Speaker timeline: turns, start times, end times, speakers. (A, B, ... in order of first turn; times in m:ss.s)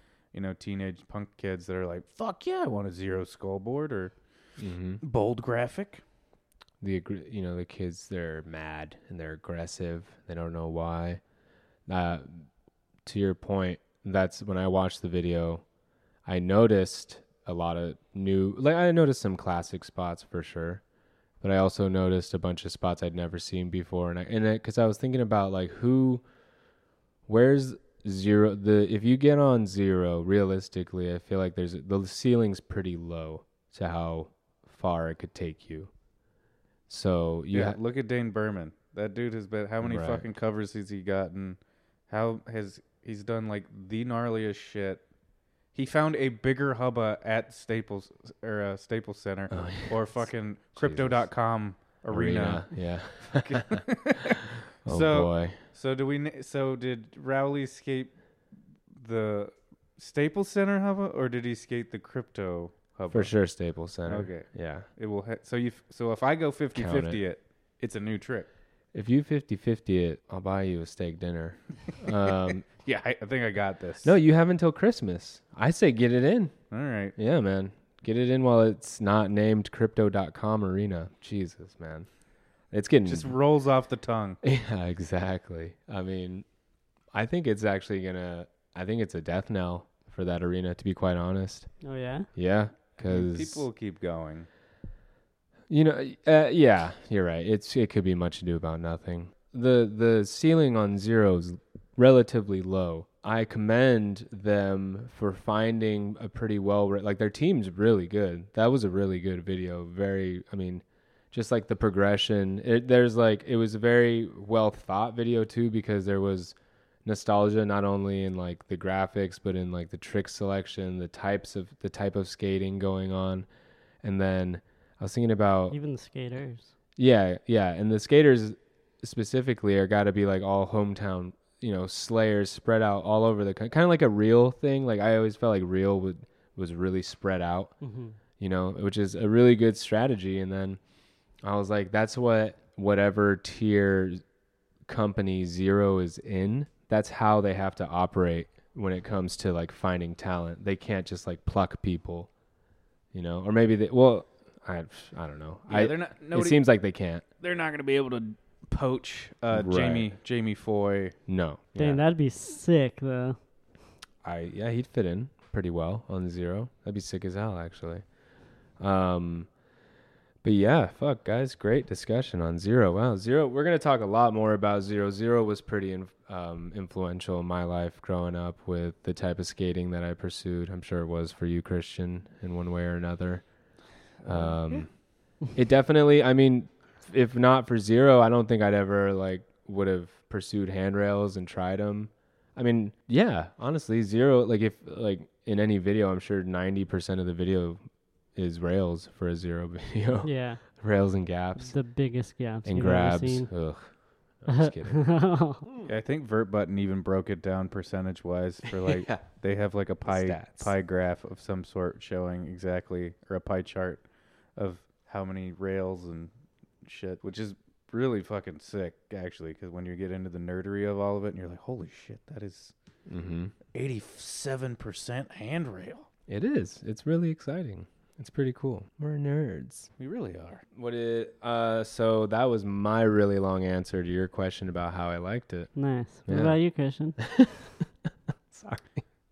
0:00.3-0:04.1 A
0:04.6-0:05.0 B
0:05.0-0:06.0 A
0:06.8-0:11.2 B
0:11.9-0:12.5 B
0:13.0-0:15.6 B
0:16.2-0:20.8 B
0:21.4-0:26.2 B
0:27.3-0:35.9 B
0:36.9-0:37.8 B
0:37.5-0:45.0 A
0:39.8-0:40.2 B
0:45.7-0:58.1 A
0:49.5-0:51.3 B
0:52.1-0:53.9 B
0:54.8-0:55.6 B
0:58.9-1:03.4 A
1:03.1-1:04.9 B
1:04.0-1:08.5 A
1:06.8-1:07.2 B
1:08.9-1:12.6 B
1:12.8-1:14.2 A
1:14.0-1:16.5 B
1:16.7-1:17.1 A
1:17.2-1:22.1 B
1:22.7-1:23.3 B
1:23.0-1:24.4 A
1:24.4-1:26.4 B
1:27.1-1:31.7 B
1:31.8-1:32.3 C
1:32.3-1:33.6 B
1:33.0-1:34.5 A
1:35.7-2:03.4 B
2:04.0-2:05.8 B
2:05.7-2:06.7 C
2:07.0-2:17.7 B
2:17.8-2:18.2 C
2:18.4-2:20.8 B
2:21.4-2:24.2 B
2:24.9-2:32.3 B
2:33.1-2:37.2 B
2:35.7-2:36.6 A
2:37.4-2:41.2 A
2:39.5-2:40.2 B
2:41.3-2:42.0 B
2:41.8-2:43.4 C
2:44.2-2:48.1 B
2:48.8-2:49.5 B
2:50.4-3:03.4 B
3:04.2-3:04.9 B
3:04.2-3:04.8 A
3:05.5-3:17.8 B
3:18.4-3:21.8 B
3:20.2-3:20.7 C
3:21.6-3:23.6 C
3:22.6-3:25.1 B
3:24.5-3:25.6 C
3:25.9-3:34.0 A
3:28.8-3:29.2 B
3:30.0-3:30.7 B
3:34.6-3:36.3 A
3:36.8-3:42.7 A
3:43.1-3:43.5 B
3:43.7-3:46.1 A
3:46.3-3:49.9 B
3:50.0-3:50.6 A
3:50.7-3:55.7 B
3:55.8-3:57.4 C
3:56.3-3:56.6 B
3:57.2-3:57.5 B
3:58.5-3:59.0 B